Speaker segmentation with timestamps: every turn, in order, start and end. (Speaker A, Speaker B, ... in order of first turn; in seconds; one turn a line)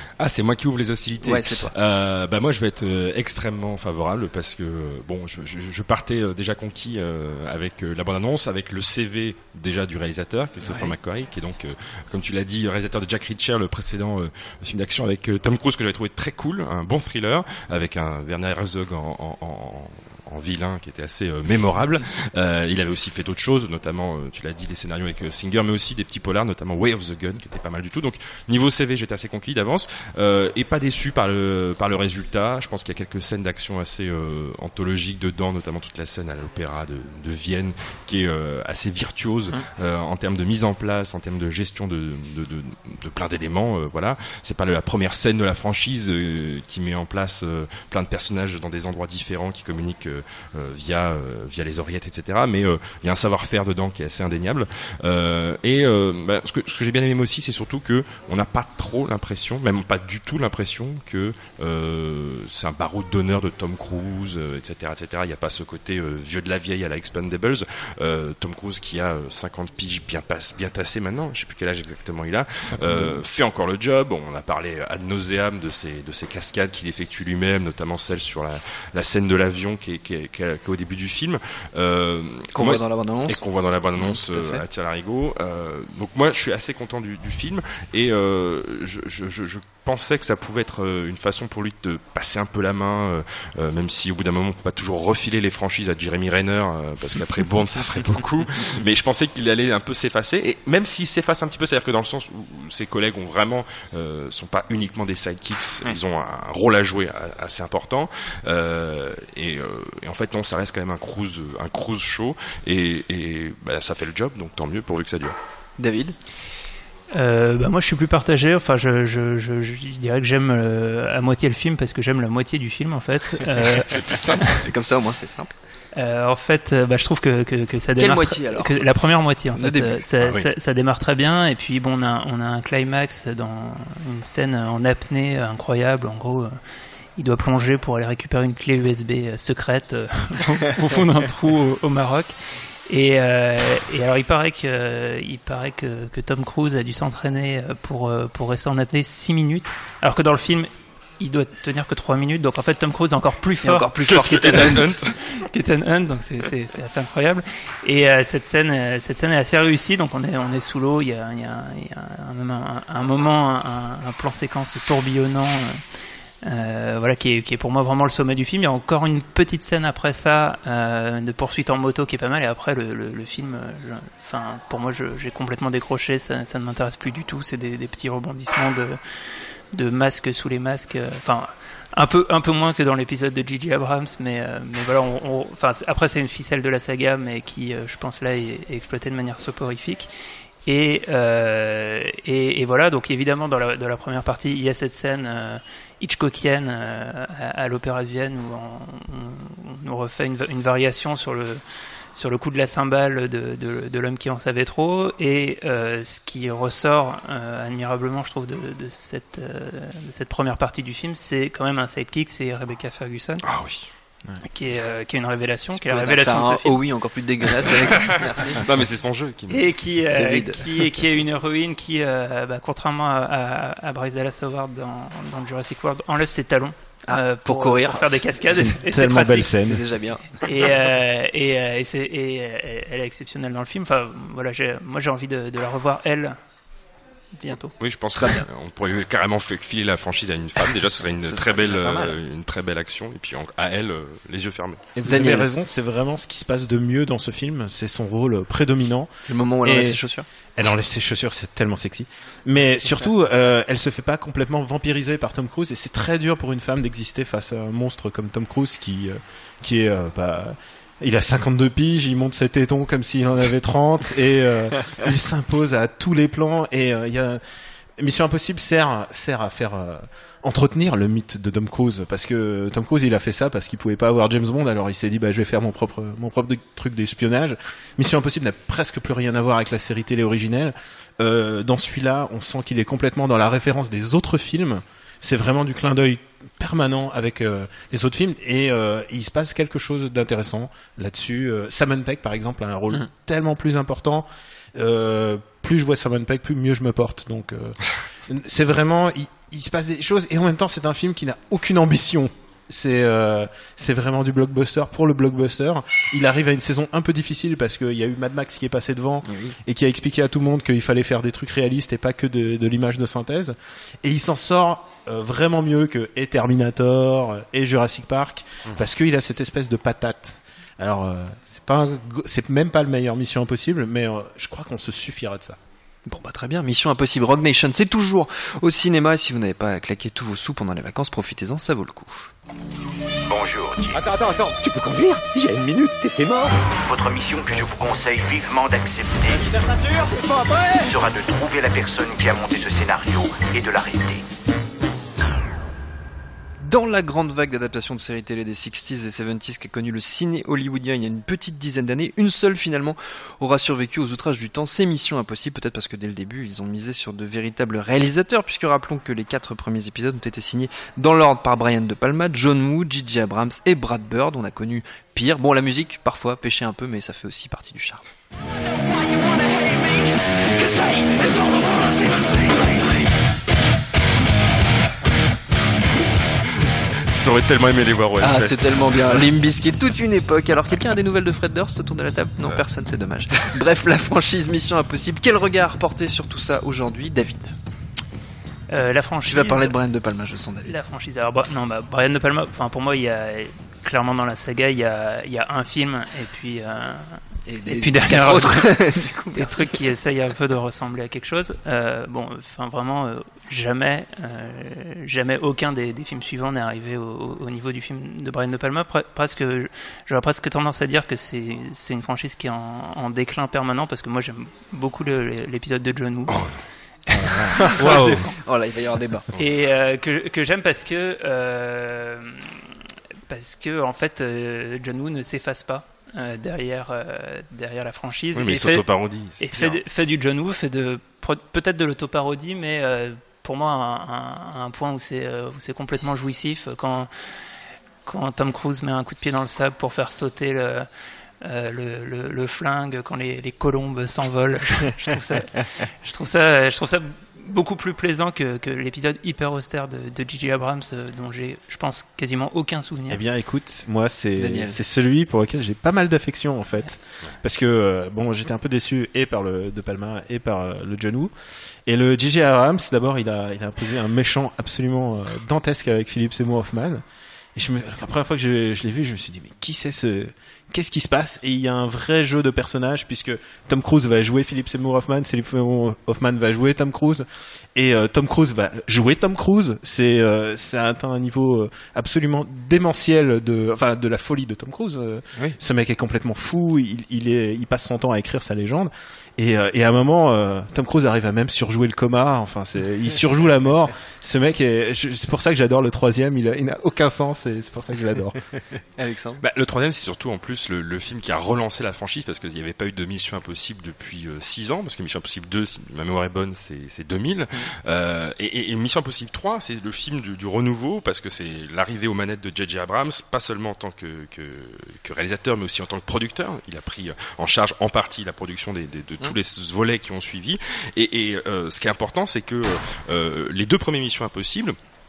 Speaker A: 0.2-115.4
Speaker B: 1.2-1.7
Speaker B: 10.6-11.0
Speaker C: 72.7-73.2
Speaker B: 82.5-83.4
Speaker B: 84.0-84.6
Speaker B: 115.8-116.2
Speaker D: 117.1-124.6
Speaker A: 123.6-124.5
Speaker B: 124.5-125.5
Speaker D: 126.0-136.6
Speaker B: 128.0-128.9
Speaker B: 129.5-130.0
Speaker A: 130.2-130.5
Speaker D: 137.2-142.3
Speaker D: 142.9-150.7
Speaker D: 151.2-153.9
Speaker B: 153.6-155.0
Speaker A: 154.1-155.1
Speaker D: 154.7-165.8
Speaker D: 166.4-179.0
Speaker D: 179.7-190.1
Speaker D: 190.7-201.6
Speaker D: 202.2-213.4
Speaker A: 213.4-213.9
Speaker D: 214.4-216.9
Speaker B: 215.8-218.7
Speaker A: 218.6-219.7
Speaker D: 219.5-229.5
Speaker B: 220.1-220.8
Speaker B: 227.1-228.2
Speaker C: 228.5-229.8
Speaker B: 229.5-230.5
Speaker D: 230.4-236.3
Speaker D: 237.3-237.7
Speaker A: 237.8-244.9
Speaker B: 238.2-238.4
Speaker B: 241.2-242.2
Speaker C: 244.9-249.1
Speaker B: 245.0-245.5
Speaker B: 249.3-250.3
Speaker C: 249.6-250.0
Speaker C: 250.6-267.4
Speaker C: 268.0-325.6
Speaker B: 309.2-309.6
Speaker B: 326.1-332.3
Speaker E: 333.3-341.3
Speaker F: 333.3-334.0
Speaker F: 336.9-339.4
Speaker F: 340.8-344.2
Speaker E: 342.4-343.5
Speaker B: 346.6-368.0
Speaker A: 376.5-379.3
Speaker B: 378.2-387.6
Speaker D: 388.7-389.8
Speaker B: 389.3-390.8
Speaker D: 390.6-416.5
Speaker B: 397.5-399.8
Speaker A: 416.3-416.6
Speaker C: 417.1-418.3
Speaker D: 417.1-418.2
Speaker B: 417.6-419.3
Speaker D: 419.4-422.8
Speaker D: 423.3-428.9
Speaker A: 428.3-429.8
Speaker D: 429.4-437.1
Speaker D: 438.1-440.9
Speaker D: 441.4-453.2
Speaker C: 453.1-461.3
Speaker B: 454.4-454.8
Speaker C: 461.9-467.0
Speaker C: 467.6-498.4
Speaker B: 499.0-499.4
Speaker A: 499.4-524.8